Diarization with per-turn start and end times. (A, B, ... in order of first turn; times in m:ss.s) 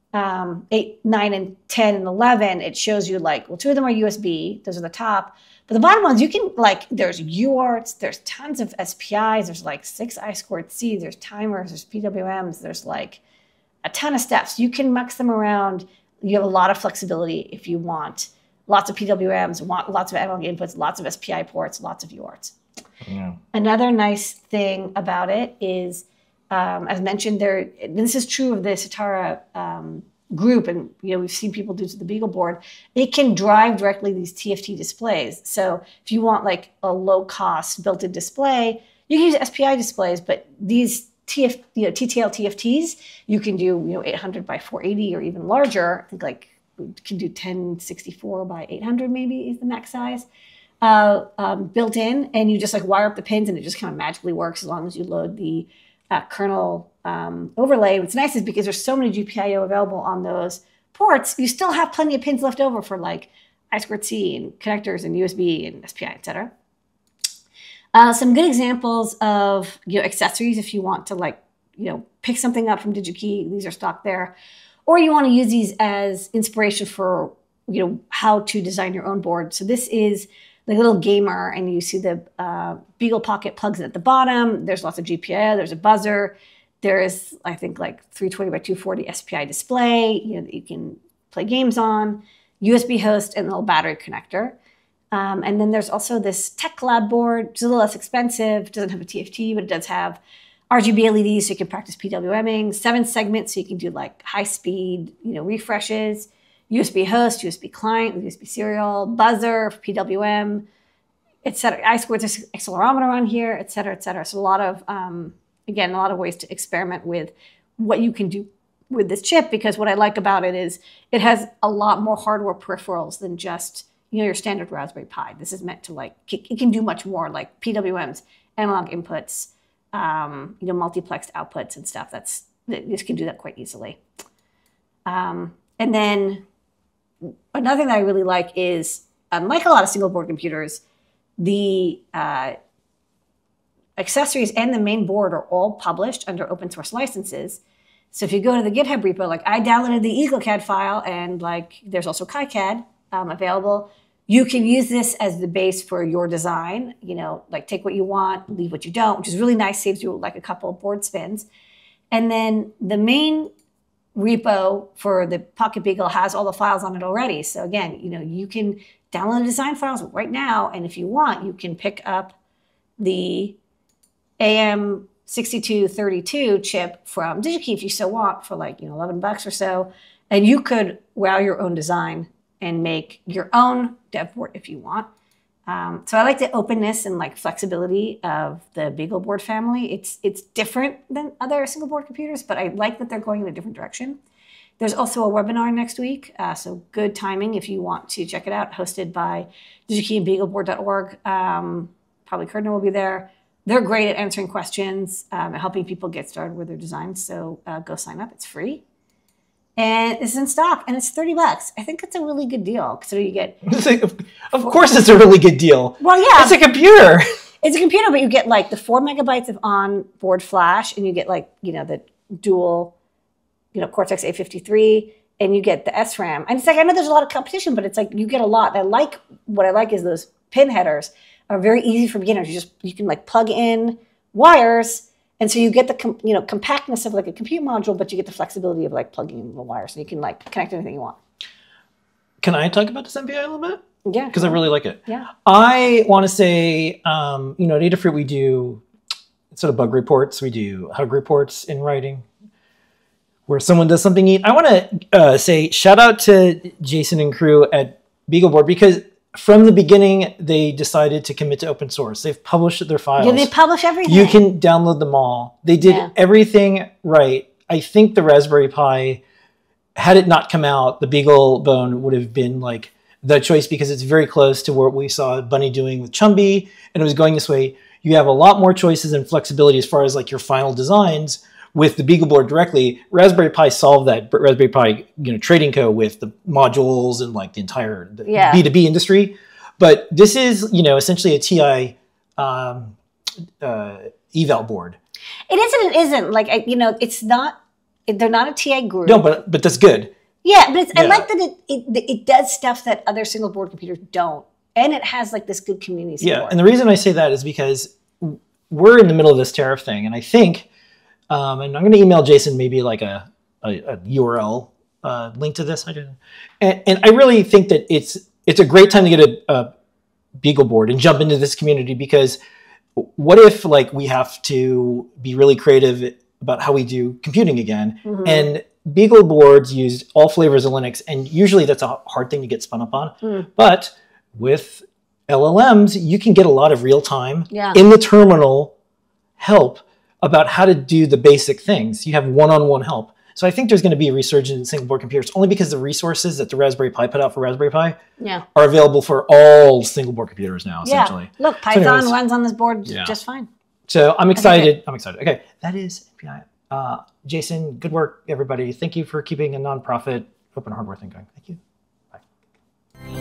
0:00.1-0:13.2 A
0:13.8-0:22.5 A
0:23.0-0:23.4 B
0:23.5-0:50.2 A
0:50.8-1:06.5 A
1:07.9-1:14.3 A
1:14.8-1:34.6 A
1:35.1-1:40.2 A
1:40.7-1:50.6 A
1:51.4-2:14.0 A
2:15.0-2:16.4 A
2:17.5-2:20.8 A
2:21.4-2:22.5 A
2:24.0-2:27.6 A
2:28.1-2:41.4 A
2:42.1-2:43.5 A
2:44.1-2:52.3 A
2:53.0-2:53.6 A
2:54.4-3:05.1 A
3:05.7-3:14.2 A
3:14.8-3:28.8 A
3:29.8-3:33.6 A
3:33.6-3:37.2 B
3:36.0-3:36.6 A
3:37.6-3:42.9 A
3:43.7-4:01.2 A
4:02.4-4:03.8 B
4:04.0-4:05.3 A
4:04.3-4:08.8 B
4:09.5-4:12.2 B
4:13.5-4:23.5 B
4:23.2-4:24.4 A
4:24.0-4:29.2 B
4:25.8-4:26.1 A
4:30.0-4:53.0 B
4:48.2-4:48.6 A
4:53.6-4:55.0 B
4:55.5-4:59.2 A
4:59.0-5:00.1 B
5:00.4-5:06.6 A
5:00.9-5:01.2 B
5:06.2-5:10.7 B
5:11.3-5:19.7 B
5:20.4-5:22.4 B
5:23.0-5:38.7 B
5:28.0-5:28.5 A
5:33.2-5:33.5 A
5:37.5-5:37.8 A
5:39.4-5:48.0 B
5:48.5-5:52.1 B
5:50.8-5:53.5 A
5:52.8-5:53.1 B
5:53.9-6:01.6 B
5:54.3-5:54.7 A